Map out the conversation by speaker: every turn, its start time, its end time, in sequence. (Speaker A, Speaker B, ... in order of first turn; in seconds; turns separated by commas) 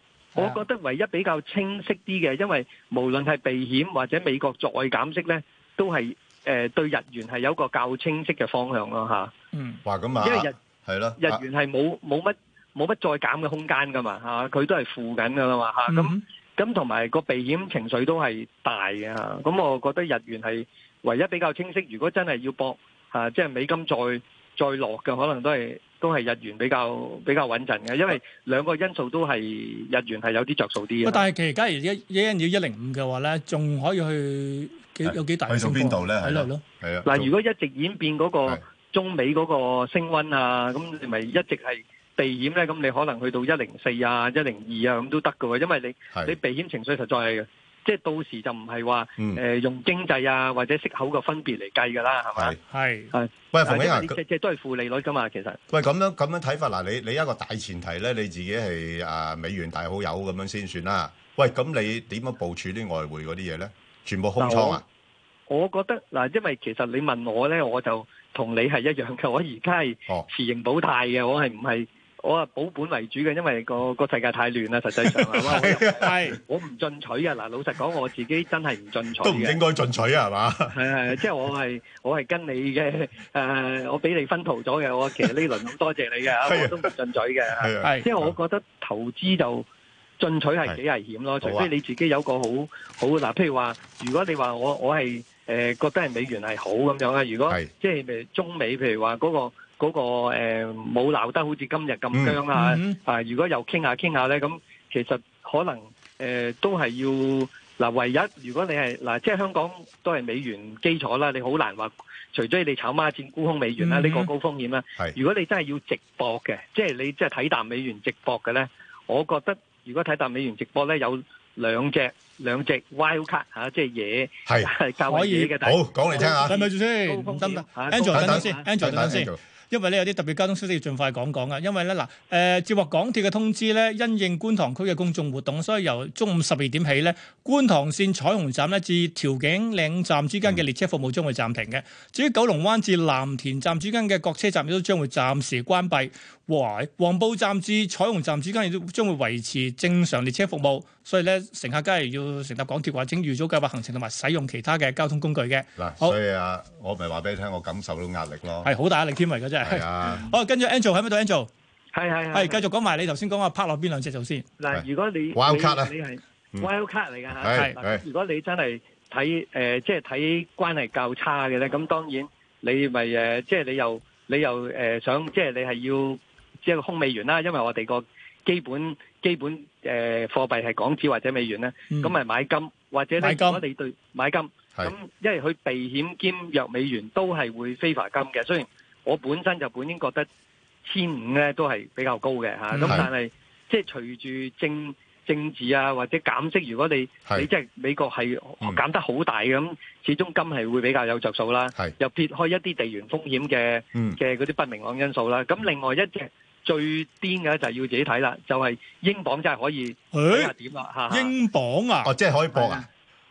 Speaker A: 0.3-9.3, Speaker B: 9.5-9.8, Speaker C: 9.8-11.4, Speaker A: 10.2-10.5, Speaker A: 11.2-31.3, Speaker B: 15.9-16.2, Speaker B: 31.0-36.6, Speaker C: 35.0-37.3, Speaker A: 37.0-52.5, Speaker B: 52.7-53.1, Speaker A: 53.1-55.6, Speaker C: 53.5-54.2, Speaker C: 55.7-64.8, Speaker A: 64.4-64.8, Speaker A: 65.5-79.6, Speaker C: 75.2-76.3, Speaker B: 76.0-76.4, Speaker C: 79.2-81.1, Speaker A: 80.7-89.7, Speaker C: 86.4-86.9, Speaker C: 87.5-88.3, Speaker A: 90.2-128.7, Speaker C: 91.4-91.7, Speaker C: 102.1-102.4, Speaker B: 102.5-103.0, Speaker B: 113.8-114.3, Speaker C: 124.5-124.7, Speaker B: 125.1-125.5, Speaker C: 125.6-126.6, Speaker B: 126.2-156.2, Speaker C: 128.0-129.4, Speaker C: 155.8-158.7, Speaker B: 158.6-161.5, Speaker C: 159.6-160.3, Speaker A: 161.9-162.6, Speaker B: 162.3-164.4, Speaker A: 164.6-190.3, Speaker C: 164.7-165.9, Speaker C: 167.3-168.0, Speaker B: 183.2-183.6, Speaker A: 190.8-211.3, Speaker B: 192.7-193.1, Speaker C: 203.9-204.2, Speaker B: 210.1-210.5, Speaker B: 211.1-212.1, Speaker C: 212.0-212.8